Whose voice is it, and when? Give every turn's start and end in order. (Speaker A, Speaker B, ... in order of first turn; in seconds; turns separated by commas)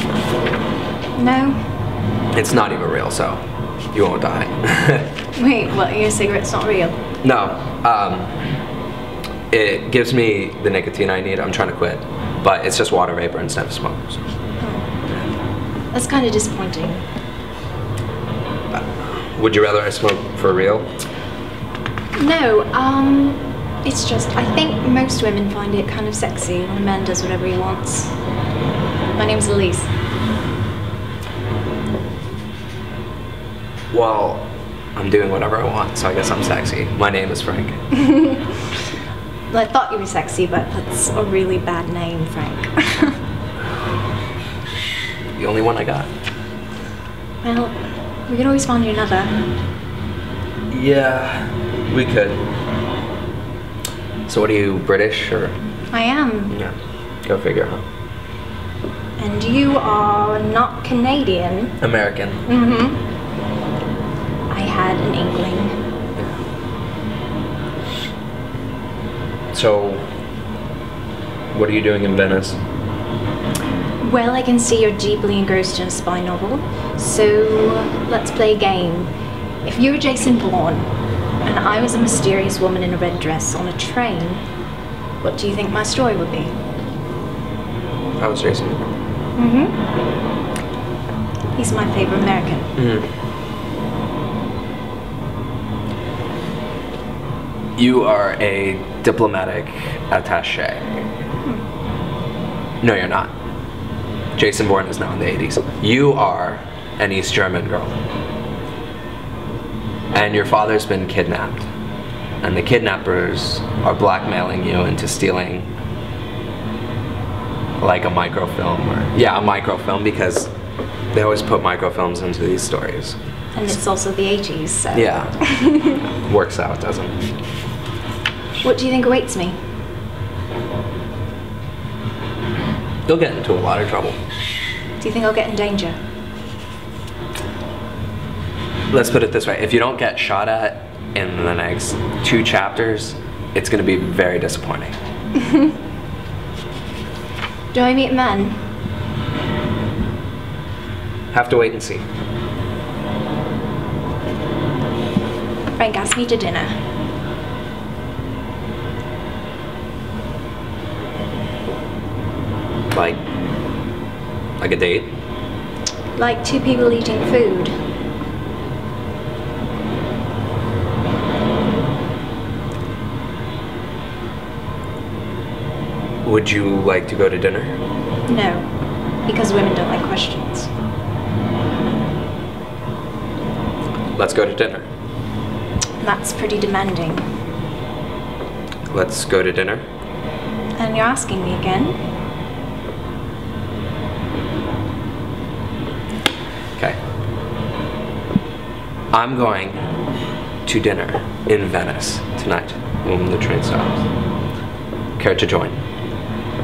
Speaker A: 1.2-1.8, Speaker B: 2.3-5.1, Speaker A: 5.4-7.0, Speaker B: 7.2-8.4, Speaker B: 9.5-14.3, Speaker A: 14.6-15.0, Speaker A: 15.9-17.1, Speaker B: 18.7-20.9, Speaker A: 22.2-28.2, Speaker A: 29.1-29.9, Speaker B: 33.9-37.8, Speaker A: 38.0-38.4, Speaker A: 39.5-43.2, Speaker B: 45.4-46.1, Speaker A: 47.4-49.3, Speaker B: 50.7-52.4, Speaker B: 54.3-55.6, Speaker A: 55.9-56.5, Speaker B: 56.5-57.8, Speaker A: 59.2-61.8, Speaker B: 61.8-62.5, Speaker A: 62.5-63.0, Speaker A: 64.5-65.8, Speaker B: 66.2-66.4, Speaker B: 69.5-70.1, Speaker B: 71.5-72.6, Speaker A: 74.0-79.1, Speaker A: 79.6-80.9, Speaker A: 81.4-84.5, Speaker A: 85.2-86.5, Speaker B: 88.2-88.8, Speaker A: 89.4-89.8, Speaker A: 91.5-92.7, Speaker B: 92.8-93.1, Speaker B: 97.8-101.0, Speaker B: 102.8-103.3, Speaker B: 104.3-108.0, Speaker B: 110.1-111.7, Speaker B: 112.4-115.7, Speaker B: 117.8-120.5, Speaker B: 121.1-123.2, Speaker A: 123.5-126.0, Speaker B: 124.9-125.4, Speaker B: 126.2-127.2, Speaker A: 128.6-129.6, Speaker B: 133.1-134.2, Speaker A: 135.0-136.0, Speaker B: 138.9-144.9, Speaker A: 147.7-148.7, Speaker B: 151.3-152.1, Speaker A: 155.8-156.8, Speaker B: 162.9-163.2, Speaker B: 164.6-165.2, Speaker A: 166.2-167.7, Speaker B: 176.2-177.8, Speaker A: 178.3-178.7, Speaker A: 179.2-180.7, Speaker B: 184.2-184.9, Speaker A: 186.0-187.3, Speaker B: 188.9-189.8, Speaker A: 190.8-192.0, Speaker B: 199.1-199.9, Speaker B: 200.7-204.1, Speaker B: 205.2-205.8